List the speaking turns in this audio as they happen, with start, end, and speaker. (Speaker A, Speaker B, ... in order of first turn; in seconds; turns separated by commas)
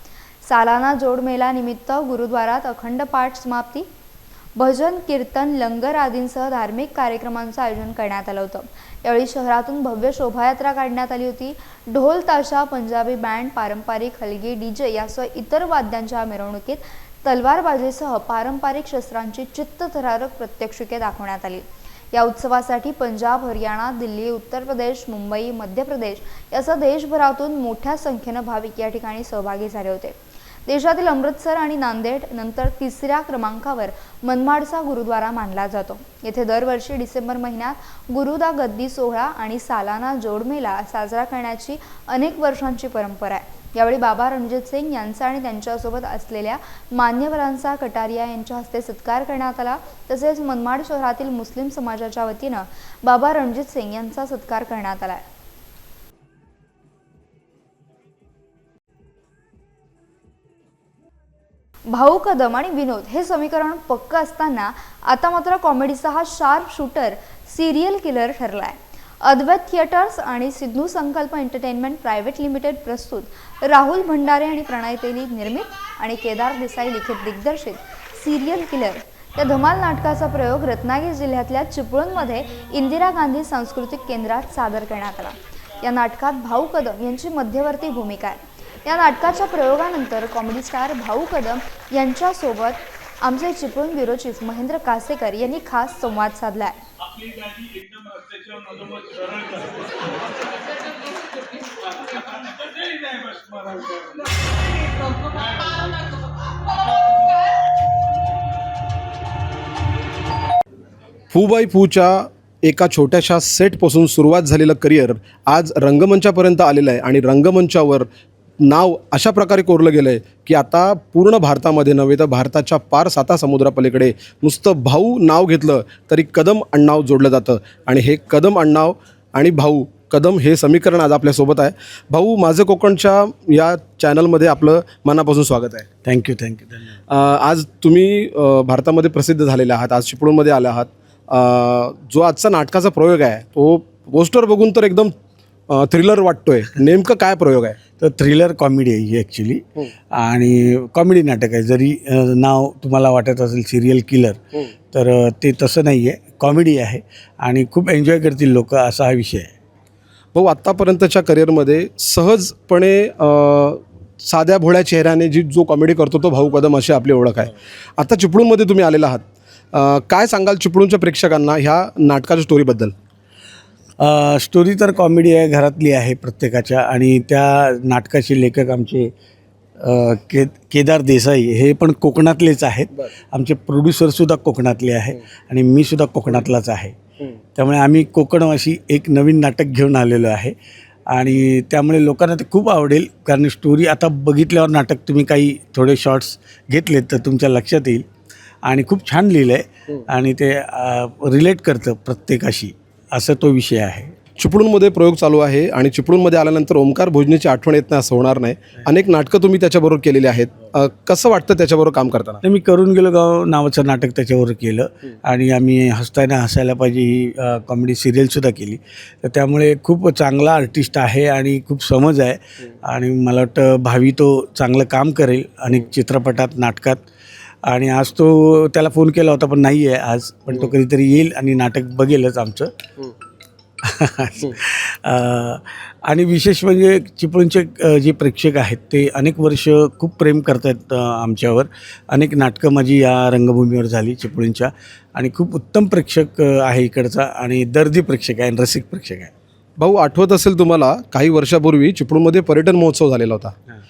Speaker A: 0.4-3.9, Speaker A: 4.5-55.2, Speaker A: 61.9-96.8, Speaker B: 111.3-118.1, Speaker B: 118.6-135.8, Speaker C: 136.0-137.0, Speaker B: 137.1-145.1, Speaker B: 145.7-147.8, Speaker C: 148.0-154.4, Speaker C: 154.9-159.5, Speaker B: 160.3-172.9, Speaker C: 174.0-179.1, Speaker C: 179.8-186.9, Speaker C: 187.6-190.5, Speaker C: 191.1-198.0, Speaker C: 198.6-204.1, Speaker B: 204.4-212.4, Speaker C: 212.4-227.0, Speaker C: 227.7-232.7, Speaker C: 233.8-249.3, Speaker B: 249.8-253.5